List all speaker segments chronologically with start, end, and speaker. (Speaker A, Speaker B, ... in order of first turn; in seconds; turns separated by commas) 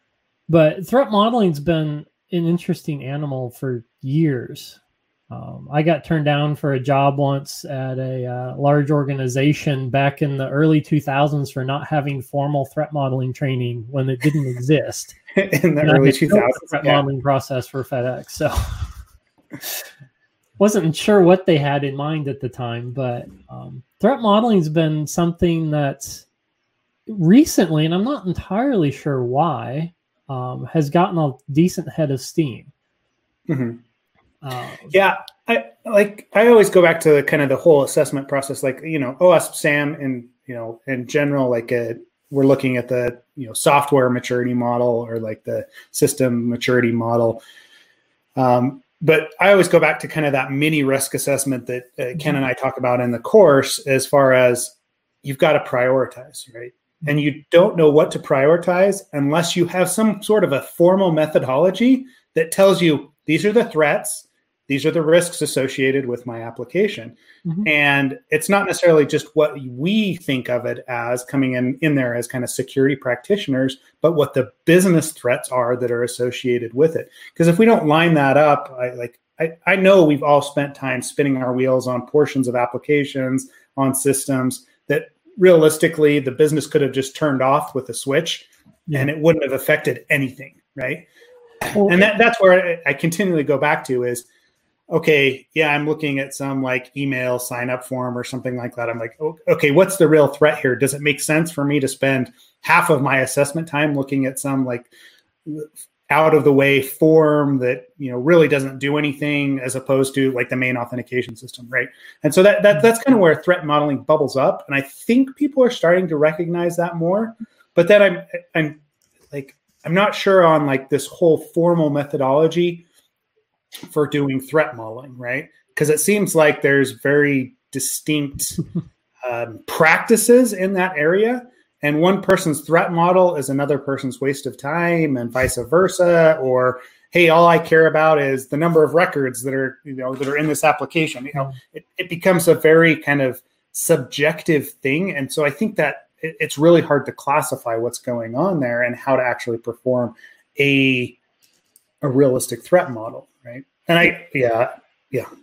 Speaker A: 0.5-4.8, Speaker A: 5.3-15.2, Speaker B: 15.3-17.0, Speaker A: 15.8-18.8, Speaker A: 20.6-26.2, Speaker A: 27.1-32.7, Speaker B: 33.5-33.8, Speaker A: 34.4-35.0, Speaker B: 34.9-47.4, Speaker B: 48.4-91.1, Speaker A: 91.7-92.1, Speaker B: 91.7-94.3, Speaker B: 94.9-104.9, Speaker B: 105.5-118.8, Speaker B: 119.3-122.8, Speaker B: 123.9-128.6, Speaker B: 129.2-151.2, Speaker B: 152.0-155.3